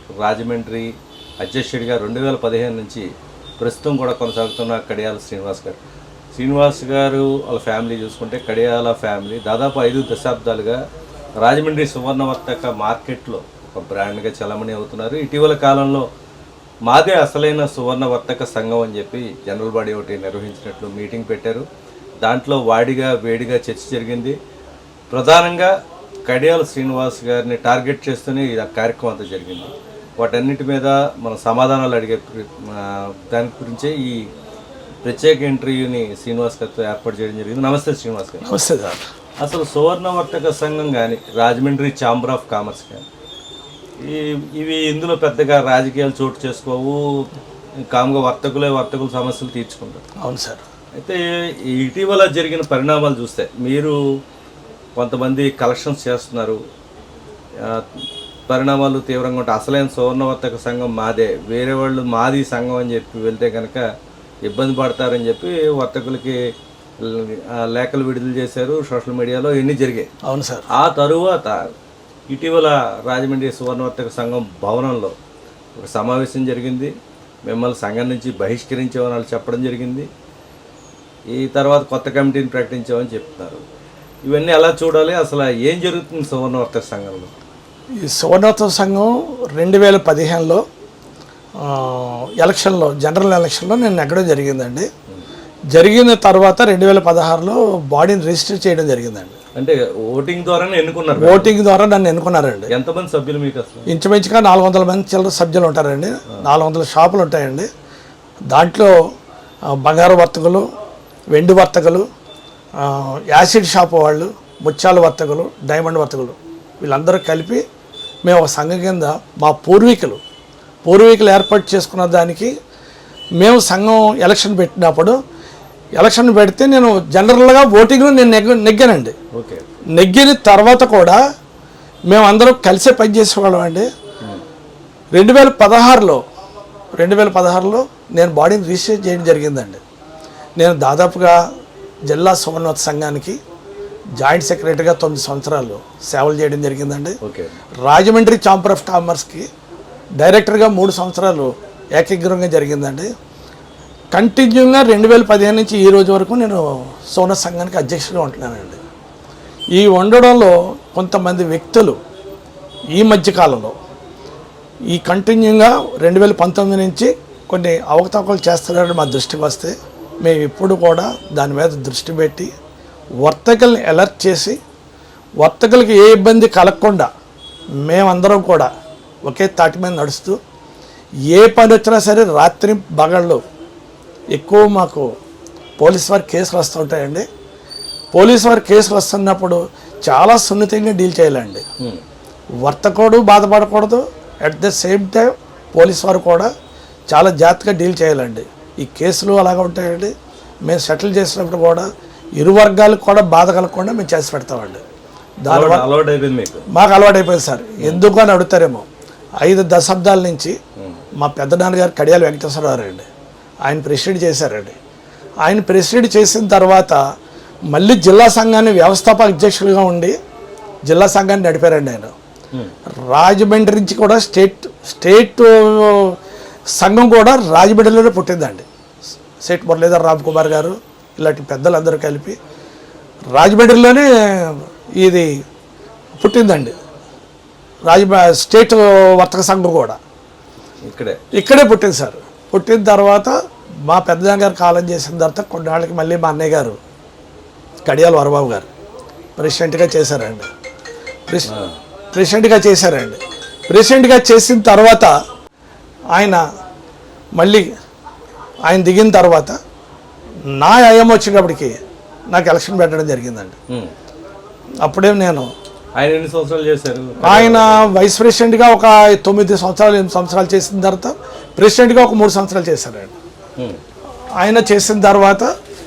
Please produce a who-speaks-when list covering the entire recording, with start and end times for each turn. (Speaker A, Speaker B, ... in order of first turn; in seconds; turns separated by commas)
Speaker A: 0.2-3.0, Speaker A: 3.6-5.8, Speaker A: 6.3-10.8, Speaker A: 11.4-16.1, Speaker A: 16.9-21.6, Speaker A: 22.2-24.3, Speaker A: 25.1-25.7, Speaker A: 26.2-34.2, Speaker A: 35.0-38.5, Speaker B: 38.4-39.0, Speaker A: 39.4-43.0, Speaker A: 44.0-47.0, Speaker A: 47.9-50.0, Speaker B: 50.2-50.6, Speaker A: 51.0-54.0, Speaker A: 55.0-56.6, Speaker A: 57.6-57.9, Speaker A: 58.5-63.8, Speaker A: 64.5-66.3, Speaker A: 67.0-70.1, Speaker B: 70.2-70.7, Speaker A: 70.7-71.6, Speaker A: 72.3-75.1, Speaker A: 75.8-76.9, Speaker A: 77.5-80.1, Speaker A: 81.3-83.6, Speaker A: 84.2-87.3, Speaker B: 88.0-90.6, Speaker B: 91.6-94.9, Speaker B: 95.7-99.4, Speaker A: 99.5-101.5, Speaker B: 101.2-102.7, Speaker A: 102.7-103.9, Speaker B: 103.9-107.7, Speaker B: 108.5-108.9, Speaker B: 109.7-110.6, Speaker B: 111.3-112.0, Speaker B: 112.8-117.6, Speaker B: 118.2-120.2, Speaker B: 120.8-122.5, Speaker B: 123.4-125.2, Speaker B: 126.0-129.1, Speaker A: 129.3-129.6, Speaker B: 129.9-131.2, Speaker B: 132.1-133.9, Speaker B: 135.1-136.2, Speaker B: 137.0-139.8, Speaker B: 140.6-141.4, Speaker B: 142.1-143.4, Speaker B: 144.2-147.2, Speaker A: 147.2-147.5, Speaker B: 147.8-149.5, Speaker B: 150.2-153.1, Speaker B: 154.1-158.8, Speaker B: 159.7-162.0, Speaker B: 162.9-163.7, Speaker B: 164.9-172.5, Speaker B: 173.2-174.6, Speaker B: 175.4-177.1, Speaker B: 177.8-178.7, Speaker B: 179.2-180.4, Speaker B: 181.3-183.4, Speaker B: 184.3-185.1, Speaker B: 185.8-187.2, Speaker B: 188.1-191.6, Speaker B: 192.6-196.5, Speaker B: 197.1-200.1, Speaker B: 200.7-201.9, Speaker B: 202.4-204.8, Speaker B: 205.4-205.9, Speaker A: 205.5-206.6, Speaker B: 206.7-208.8, Speaker B: 209.4-210.6, Speaker B: 211.2-213.0, Speaker B: 213.6-214.8, Speaker B: 215.4-217.0, Speaker B: 217.7-220.1, Speaker B: 220.9-222.1, Speaker B: 223.1-226.2, Speaker B: 226.8-228.6, Speaker B: 229.4-232.4, Speaker B: 233.3-235.3, Speaker B: 236.2-236.7, Speaker B: 237.8-240.0, Speaker A: 240.8-241.2, Speaker B: 241.3-243.3, Speaker B: 243.9-246.8, Speaker B: 247.8-248.7, Speaker B: 249.4-250.5, Speaker B: 252.1-255.1, Speaker B: 256.1-256.4, Speaker B: 257.4-257.7, Speaker B: 258.7-259.6, Speaker B: 260.5-261.8, Speaker B: 262.3-263.5, Speaker B: 264.8-265.5, Speaker A: 265.9-267.9, Speaker B: 267.2-273.1, Speaker B: 274.4-275.5